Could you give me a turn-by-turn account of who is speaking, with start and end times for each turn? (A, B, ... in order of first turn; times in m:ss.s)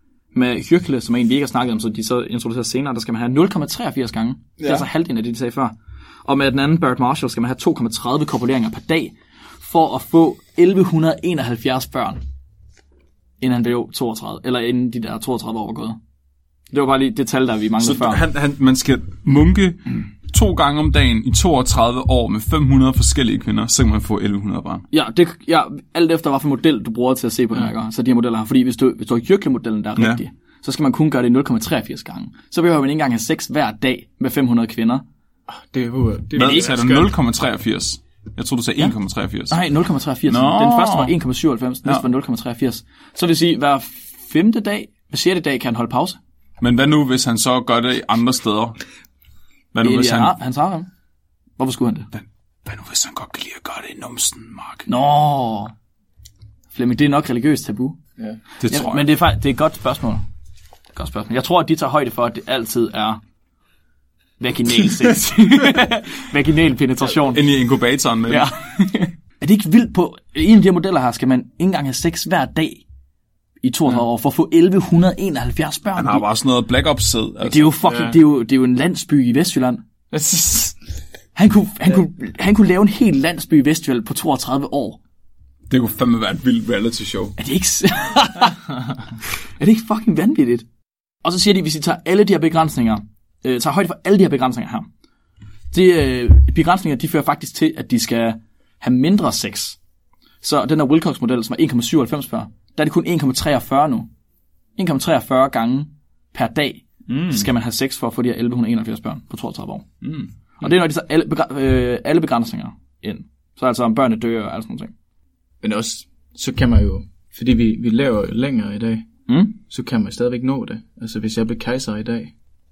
0:00.3-0:12.2 A
0:04.6-0:04.8 B
0:13.4-0:16.0 A
0:16.7-0:18.2 A
0:17.8-0:24.8 B
0:24.9-0:35.0 A
0:30.0-0:30.2 B
0:35.5-0:37.1 C
0:36.4-0:39.6 B
0:36.4-0:36.7 A
0:39.5-0:46.2 A
0:40.3-0:41.1 B
0:46.6-0:48.8 B
0:49.7-0:50.3 B
0:49.8-0:50.9 A
0:51.6-0:52.1 A
0:52.1-0:54.8 B
0:54.9-0:55.7 A
0:56.7-0:58.0 A
0:58.6-0:59.0 B
0:58.7-1:00.2 A
1:01.0-1:03.2 A
1:04.4-1:07.5 A
1:07.3-1:08.5 B
1:08.3-1:12.8 A
1:13.6-1:16.2 A
1:16.0-1:17.8 B
1:17.4-1:19.8 A
1:17.8-1:18.2 C
1:20.1-1:20.8 C
1:21.3-1:25.0 A
1:25.7-1:27.3 B
1:27.4-1:28.8 A
1:29.4-1:30.6 A
1:31.2-1:34.9 A
1:35.7-1:39.8 A
1:40.4-1:44.1 A
1:44.8-1:49.9 A
1:47.1-1:47.5 B
1:50.0-1:50.3 B
1:50.6-1:54.9 A
1:55.6-2:02.3 C
1:59.3-1:59.5 A